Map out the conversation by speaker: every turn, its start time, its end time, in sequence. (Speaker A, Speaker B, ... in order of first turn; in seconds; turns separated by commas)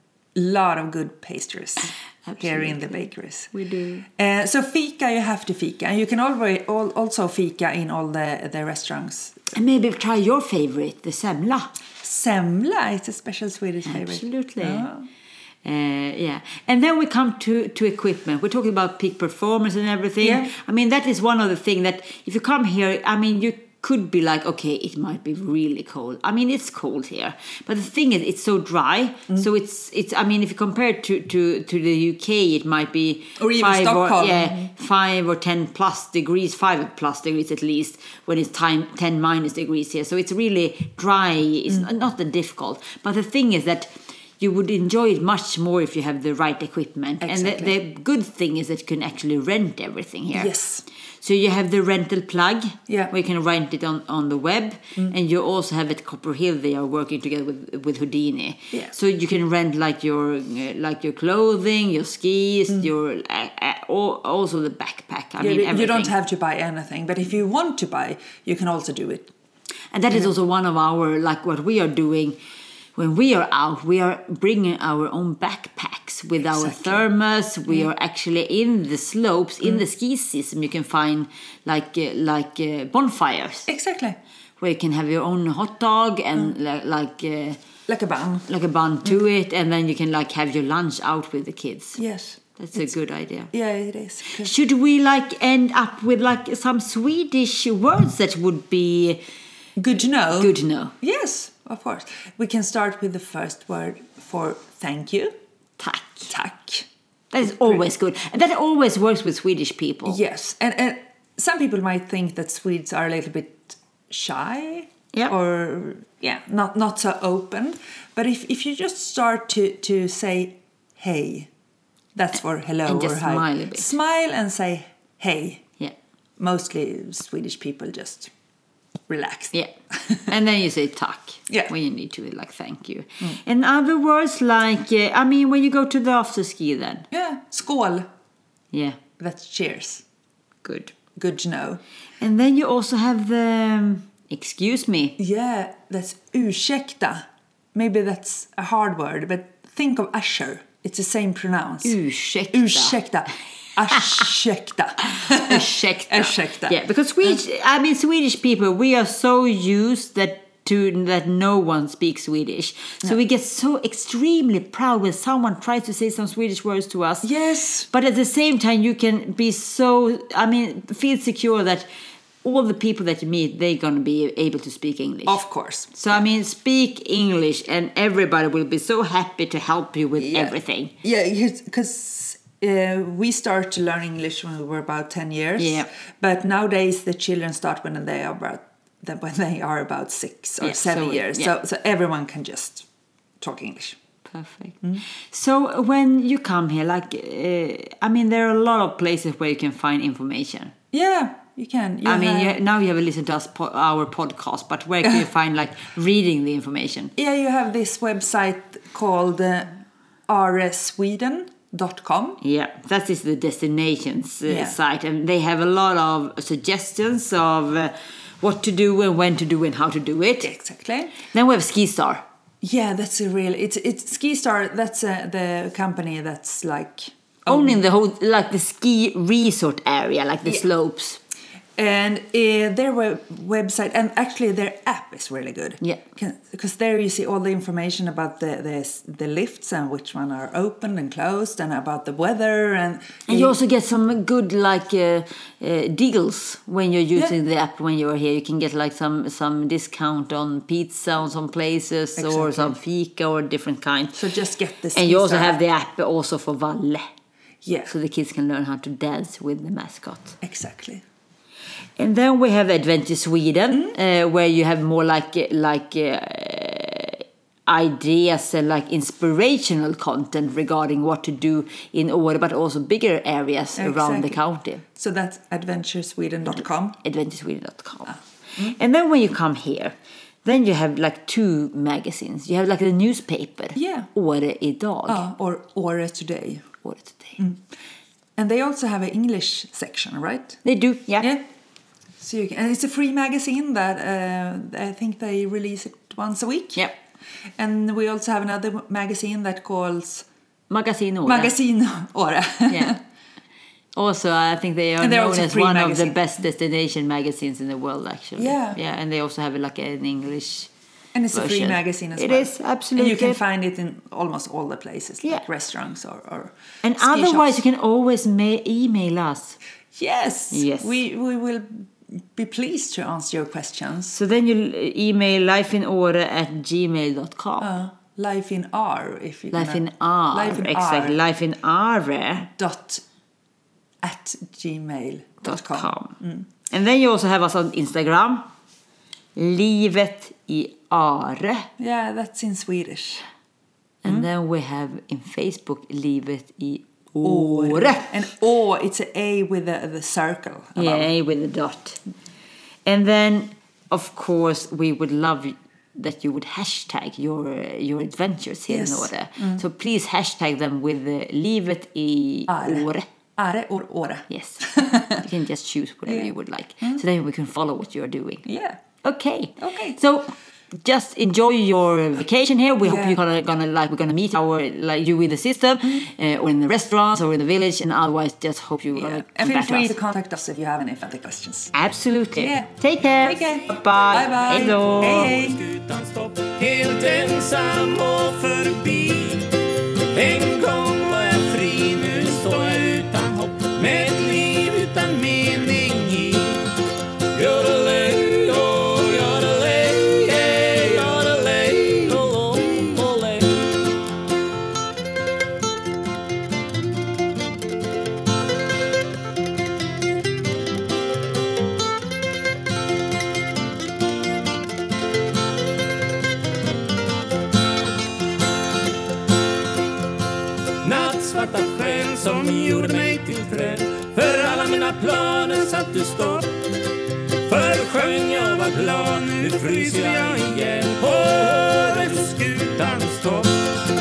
Speaker A: 0.3-3.5, Speaker B: 2.3-4.1, Speaker A: 4.1-9.5, Speaker B: 9.5-11.7, Speaker A: 12.0-15.1, Speaker B: 13.9-14.9, Speaker B: 15.7-50.5, Speaker A: 20.2-20.5, Speaker A: 33.4-34.7, Speaker A: 47.2-47.8, Speaker A: 50.3-50.8, Speaker B: 51.2-66.2, Speaker A: 52.9-53.1, Speaker A: 65.4-69.3, Speaker B: 69.9-72.4, Speaker B: 73.0-83.7, Speaker A: 76.4-77.0, Speaker A: 83.7-84.2, Speaker B: 84.6-87.6, Speaker A: 87.9-88.5, Speaker B: 88.5-92.0, Speaker A: 92.0-92.9, Speaker B: 92.6-93.5, Speaker A: 93.5-94.5, Speaker B: 94.3-99.2, Speaker A: 99.8-105.3, Speaker B: 100.4-100.9, Speaker B: 105.8-106.3, Speaker A: 106.3-106.9, Speaker B: 107.3-110.2, Speaker A: 107.5-107.8, Speaker A: 110.0-121.5, Speaker A: 122.2-125.7, Speaker B: 122.9-123.9, Speaker A: 126.4-128.3, Speaker A: 129.1-129.5, Speaker B: 130.3-137.1, Speaker A: 137.1-138.1, Speaker B: 138.7-139.0, Speaker A: 139.2-140.0, Speaker B: 140.6-140.9, Speaker A: 141.2-141.8, Speaker B: 142.2-145.2, Speaker A: 145.2-152.0, Speaker B: 151.8-153.0, Speaker A: 152.5-156.8, Speaker B: 155.1-167.3, Speaker A: 167.2-167.9, Speaker B: 167.9-171.9, Speaker B: 172.4-175.4, Speaker A: 175.3-176.2, Speaker B: 175.9-180.9, Speaker A: 180.2-192.9, Speaker B: 185.6-185.9, Speaker B: 190.6-191.5, Speaker A: 193.4-194.0, Speaker B: 194.3-200.7, Speaker A: 200.9-202.6, Speaker B: 202.1-207.1, Speaker A: 207.2-209.7, Speaker A: 210.3-212.4, Speaker B: 212.4-220.5, Speaker A: 214.5-214.8, Speaker A: 220.4-221.1, Speaker B: 221.2-222.2, Speaker A: 222.6-227.8, Speaker B: 227.5-231.2, Speaker A: 231.8-243.6, Speaker B: 243.3-254.2, Speaker A: 252.2-252.8, Speaker A: 254.2-255.6, Speaker B: 254.9-257.1, Speaker A: 257.6-257.9, Speaker B: 257.9-260.4, Speaker A: 260.4-261.0, Speaker B: 262.0-274.8, Speaker A: 273.8-274.4, Speaker A: 274.9-277.0, Speaker B: 277.0-285.2, Speaker A: 283.8-284.1, Speaker A: 285.1-286.7, Speaker B: 286.8-287.4, Speaker A: 288.4-290.6, Speaker B: 290.6-291.3, Speaker A: 292.2-296.9, Speaker A: 297.6-300.3, Speaker B: 300.7-301.6, Speaker A: 301.2-303.0, Speaker B: 302.7-303.0, Speaker B: 303.9-310.7, Speaker A: 305.0-306.2, Speaker A: 308.4-308.8, Speaker A: 311.1-317.6, Speaker B: 311.3-313.4, Speaker B: 316.8-319.6, Speaker A: 319.9-324.2, Speaker B: 320.5-321.0, Speaker B: 324.1-327.7, Speaker A: 327.6-331.2, Speaker B: 329.5-332.5, Speaker A: 332.6-333.0, Speaker A: 334.0-336.5, Speaker B: 335.4-336.2, Speaker B: 336.7-338.5, Speaker B: 339.4-341.7, Speaker A: 341.8-343.2, Speaker B: 344.0-348.1, Speaker A: 347.2-351.1, Speaker B: 350.8-352.0, Speaker B: 352.9-363.1, Speaker A: 358.7-359.6, Speaker A: 362.5-365.2, Speaker B: 364.3-368.5, Speaker A: 366.1-367.0, Speaker A: 368.4-368.8, Speaker B: 369.0-379.9, Speaker A: 369.6-370.0, Speaker A: 372.8-373.2, Speaker A: 378.9-381.7, Speaker B: 381.7-385.3, Speaker A: 382.4-385.6, Speaker C: 384.8-389.6, Speaker C: 390.1-396.7, Speaker C: 397.3-403.8, Speaker C: 420.8-426.6, Speaker C: 427.4-433.8